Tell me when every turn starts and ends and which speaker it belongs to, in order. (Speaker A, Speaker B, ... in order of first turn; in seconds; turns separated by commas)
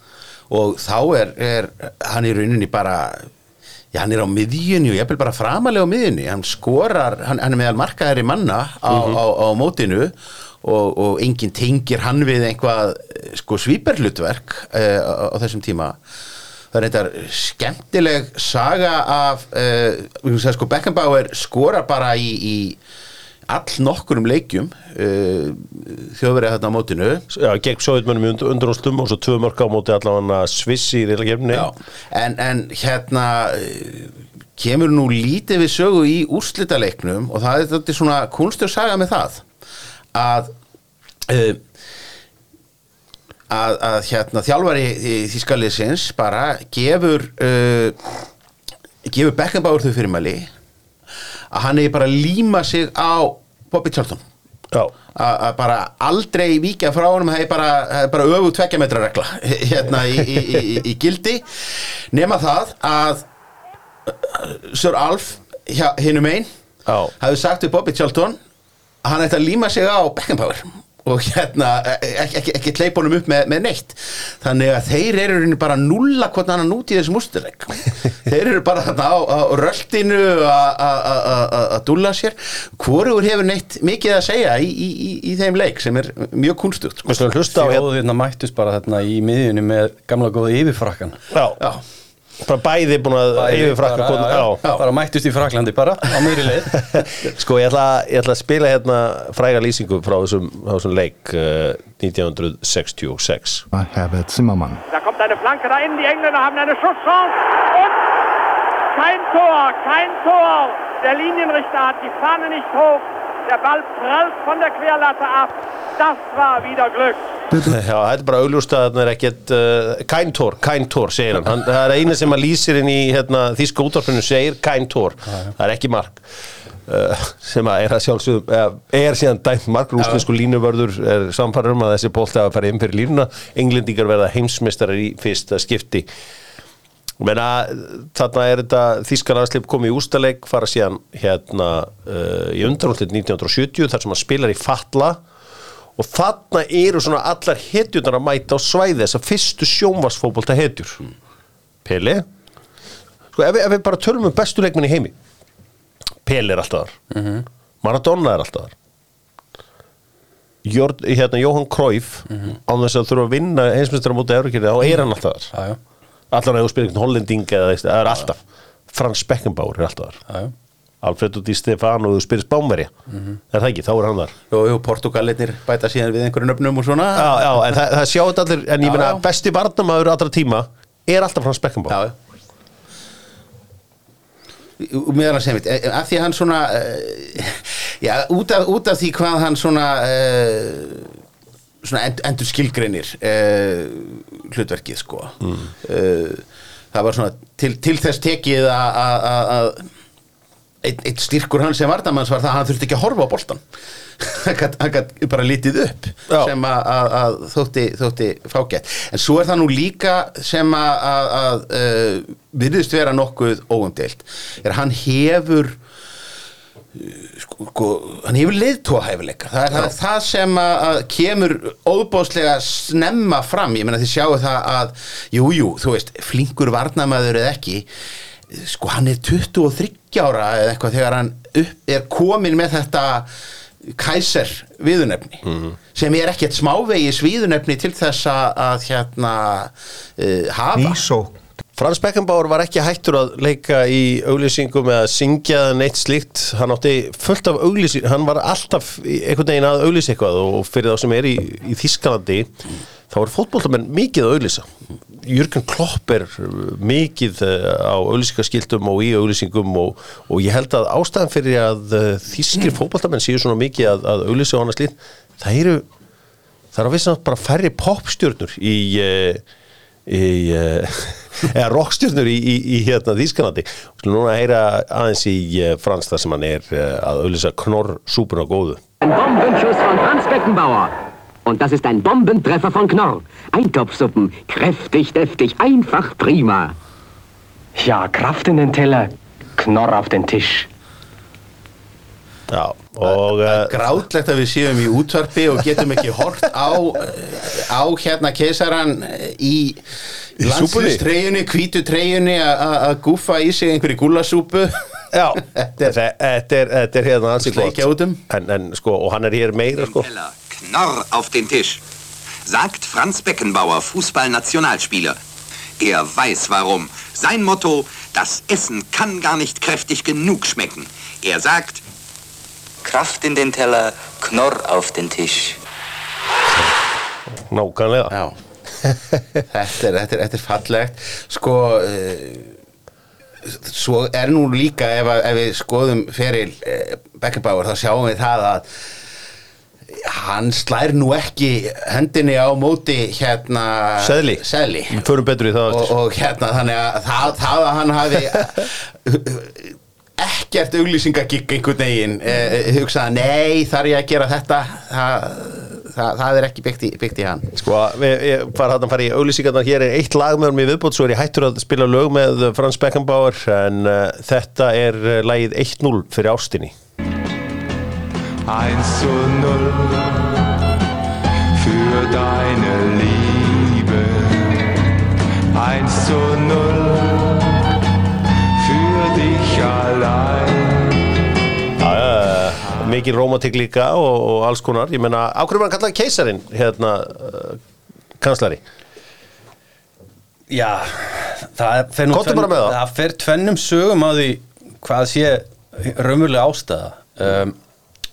Speaker A: 0.5-3.3, Speaker A: 3.9-16.0, Speaker B: 8.9-9.2, Speaker A: 16.7-22.8, Speaker A: 23.5-27.2, Speaker B: 27.3-31.7, Speaker A: 31.5-39.4, Speaker A: 40.1-40.5, Speaker A: 41.3-41.6, Speaker A: 43.5-48.0, Speaker A: 49.0-50.5, Speaker A: 51.5-54.2, Speaker A: 55.1-63.2, Speaker A: 64.1-66.5, Speaker B: 66.8-67.1, Speaker A: 67.2-68.4, Speaker A: 69.0-87.1, Speaker B: 87.0-87.9, Speaker C: 87.5-91.2, Speaker B: 91.3-91.6, Speaker B: 92.4-94.6, Speaker C: 93.3-96.8, Speaker B: 96.9-103.7, Speaker D: 103.7-104.8, Speaker E: 104.9-108.1, Speaker E: 108.9-117.3, Speaker D: 117.5-117.8, Speaker B: 117.6-126.2, Speaker B: 126.8-136.1, Speaker B: 137.2-145.2, Speaker B: 146.0-151.0, Speaker B: 151.8-152.2, Speaker B: 153.3-155.1, Speaker B: 156.2-157.0, Speaker C: 157.1-157.5, Speaker B: 157.8-158.7, Speaker B: 160.6-165.5, Speaker B: 166.3-168.4, Speaker B: 168.9-170.2, Speaker B: 171.0-172.9, Speaker B: 173.5-174.3, Speaker A: 174.5-177.5, Speaker B: 177.2-182.0, Speaker A: 178.8-179.2, Speaker A: 181.9-182.1, Speaker A: 184.8-191.1, Speaker A: 191.8-199.9, Speaker A: 200.8-203.6, Speaker A: 204.2-215.8, Speaker B: 206.3-206.5, Speaker A: 216.9-227.8, Speaker A: 228.5-233.3, Speaker A: 233.9-235.4, Speaker B: 235.4-235.7, Speaker A: 235.9-241.0, Speaker D: 240.8-241.3, Speaker B: 241.8-252.5, Speaker B: 253.1-265.9, Speaker B: 266.7-269.4, Speaker B: 270.1-278.8, Speaker F: 279.0-280.9, Speaker F: 281.4-286.7, Speaker G: 287.8-290.7, Speaker B: 292.5-293.8, Speaker A: 293.0-299.8, Speaker A: 300.4-304.7, Speaker B: 300.4-301.0, Speaker B: 305.1-310.1, Speaker A: 305.4-305.9, Speaker A: 307.4-308.2, Speaker H: 309.8-311.8, Speaker H: 312.4-315.2, Speaker H: 315.8-321.8, Speaker I: 322.8-325.6, Speaker B: 326.5-326.8, Speaker B: 327.3-328.1, Speaker A: 328.1-328.4, Speaker A: 329.5-332.5, Speaker A: 333.4-338.6, Speaker A: 339.9-345.0, Speaker B: 344.0-345.9, Speaker A: 345.7-357.5, Speaker B: 357.6-366.8, Speaker J: 368.4-370.5, Speaker J: 371.5-374.8, Speaker J: 375.5-377.6, Speaker J: 378.6-381.0, Speaker B: 381.8-387.6, Speaker B: 388.2-388.6, Speaker C: 390.5-397.6, Speaker B: 392.1-392.8